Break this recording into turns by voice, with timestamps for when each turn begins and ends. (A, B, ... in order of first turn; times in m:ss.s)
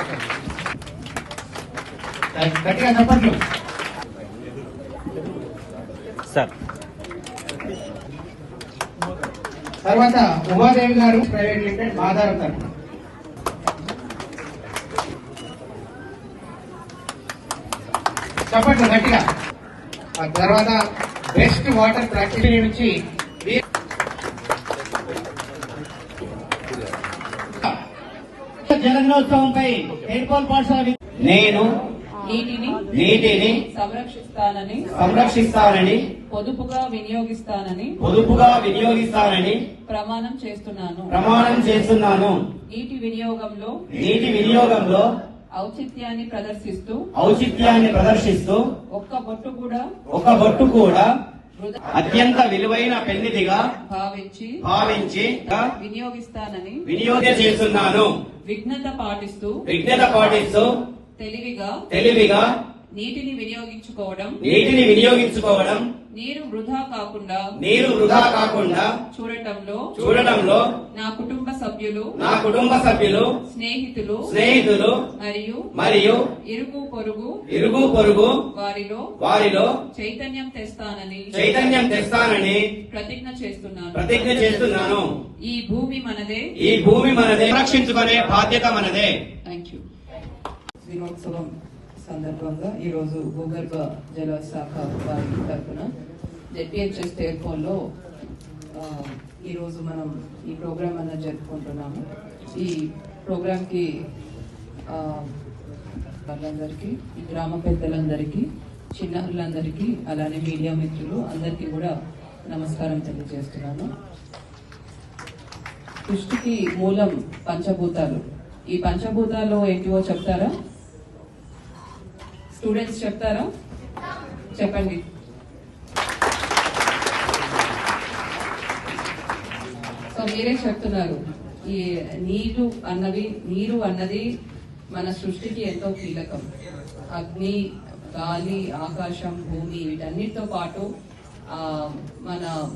0:02.4-0:03.4 A
0:09.8-0:12.6 A
0:18.5-0:19.2 A
0:20.2-0:20.8 A
0:21.4-0:23.6 A
0:28.7-0:31.7 B
0:32.2-0:34.9 C
0:32.9-0:33.6 B
0:35.0-0:36.0 B
0:36.3-0:38.0 C
0:38.0-0:39.6 B
0:39.9-0:41.2 C
0:41.1-0:42.4 B
0:42.7-0:43.8 C
0:43.9-0:45.1 B
0:45.5-0:47.1 C
0:47.2-0:48.6 B
0:48.9-0:49.9 C
0:50.1-0:51.1 B
0:51.6-0:51.8 C
0:51.9-0:53.6 B
0:53.8-0:54.6 C
0:54.6-0:55.6 B
0:55.4-0:56.9 C
0:56.9-0:58.1 B
0:58.4-0:59.6 C
0:59.7-1:00.7 B
1:01.2-1:01.8 C
1:01.9-1:02.5 B
1:02.9-1:04.4 C
1:04.4-1:05.9 B
1:06.1-1:07.5 C
1:07.6-1:08.9 B
1:09.1-1:10.0 C
1:10.0-1:10.6 B
1:10.9-1:12.2 C
1:12.2-1:13.3 B
1:13.4-1:14.4 C
1:14.3-1:15.0 B
1:15.2-1:15.7 C
1:15.8-1:16.2 B
1:16.4-1:17.4 C
1:17.5-1:18.4 B
1:18.5-1:19.1 C
1:19.2-1:19.7 B
1:19.9-1:21.5 C
1:21.3-1:22.6 B
1:22.9-1:26.5 C
1:24.0-1:25.1 B
1:26.6-1:29.2 B
1:29.4-1:29.8 C
1:30.8-1:31.5 C
1:32.0-1:35.9 C
1:36.5-1:37.8 C
1:38.7-1:43.9 C
1:44.9-1:45.3 C
1:46.3-1:51.9 C
1:52.5-1:53.9 C
1:56.1-2:00.5 C
2:02.6-2:03.5 C
2:04.6-2:05.0 C
2:10.1-2:14.2 C
2:15.0-2:16.4 C
2:17.1-2:17.6 C
2:18.1-2:20.9 C
2:21.5-2:22.5 C